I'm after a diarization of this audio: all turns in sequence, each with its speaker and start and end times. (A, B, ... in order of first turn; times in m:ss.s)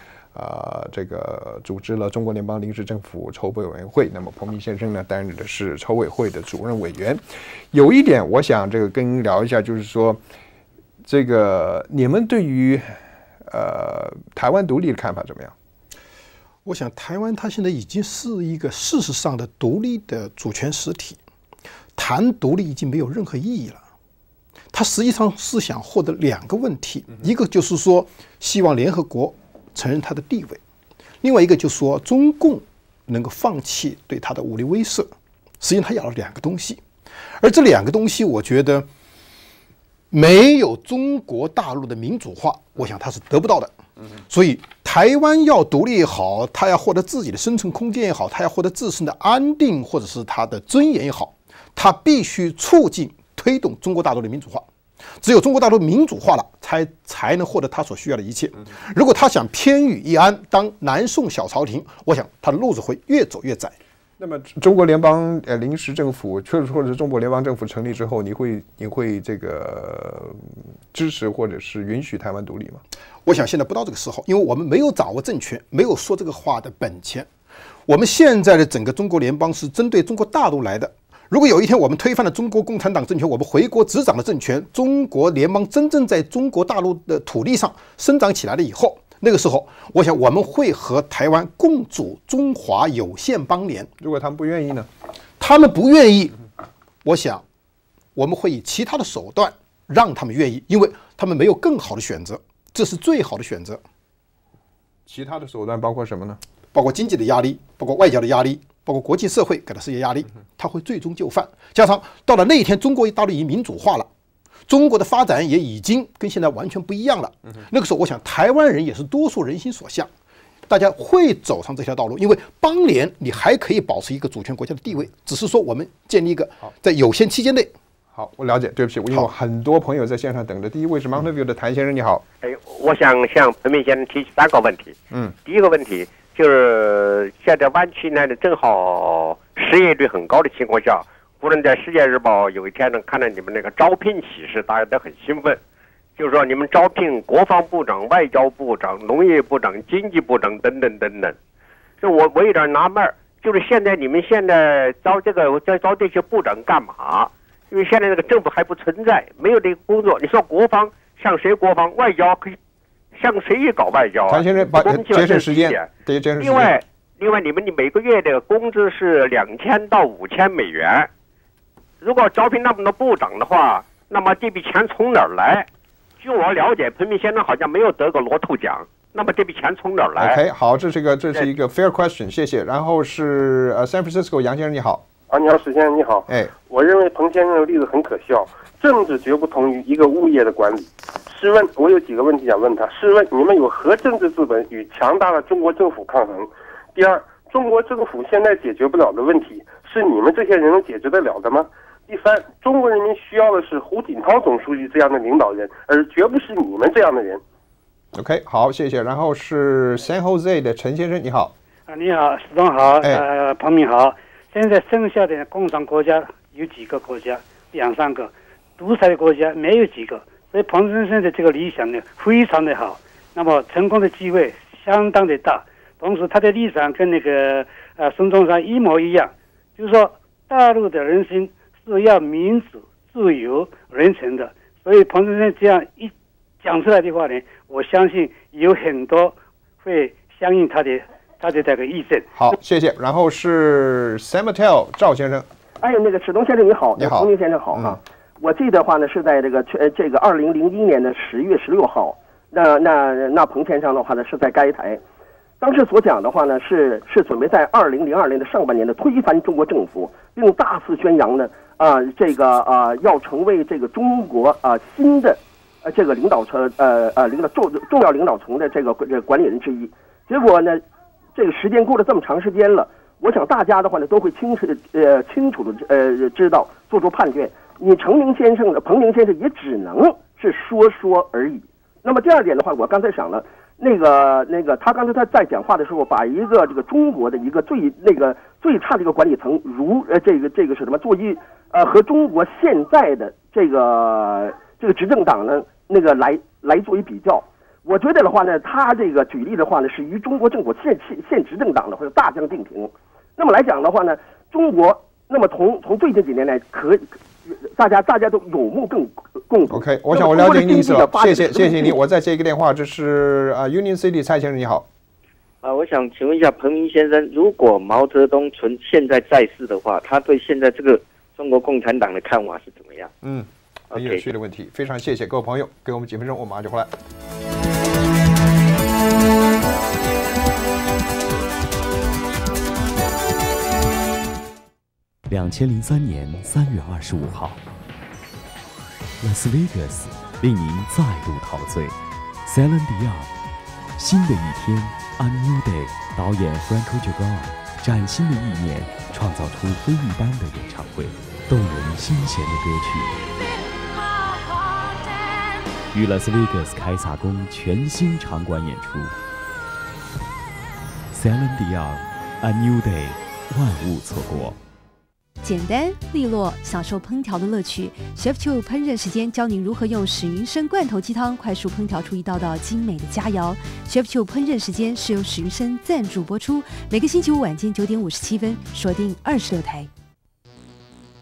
0:00.3-0:10.2 A
0:11.0-0:12.8 A
0:13.5-0:15.5 A
0:16.6-0:21.2 B
0:22.0-0:23.8 B
0:24.7-0:30.6 B
0:31.2-0:36.8 B
0:37.4-0:38.9 B
0:40.1-0:43.7 B
0:44.3-0:54.7 B
0:55.2-1:03.7 B
1:04.2-1:12.8 A
1:13.2-1:17.3 B
1:17.9-1:33.9 B
1:34.0-1:34.9 A
1:35.4-1:36.3 B
1:37.0-1:37.4 B
1:38.1-1:43.8 B
1:45.1-1:46.4 A
1:46.7-1:54.1 B
1:54.7-2:00.1 B
2:00.7-2:07.7 B
2:08.1-2:12.2 A
2:12.4-2:25.6 C
2:26.2-2:31.4 C
2:32.0-2:42.6 C
2:43.1-2:45.9 C
2:44.3-2:46.8 A
2:46.4-2:51.1 C
2:52.0-2:55.7 C
2:56.2-3:00.4 C
3:00.2-3:05.0 A
3:05.3-3:27.4 D
3:28.1-3:31.5 A
3:31.9-4:02.2 E
4:02.3-4:05.5 A
4:05.8-4:15.0 F
4:07.0-4:08.0 A
4:15.6-4:30.8 F
4:31.3-5:12.0 F
5:09.7-5:14.9 A
5:15.6-5:23.1 G
5:23.2-5:26.9 A
5:23.9-5:24.2 G
5:35.3-5:37.6 H
5:39.2-5:43.3 H
5:44.0-5:53.3 H
5:55.9-5:59.1 H
6:01.1-6:04.6 H
6:05.4-6:19.9 I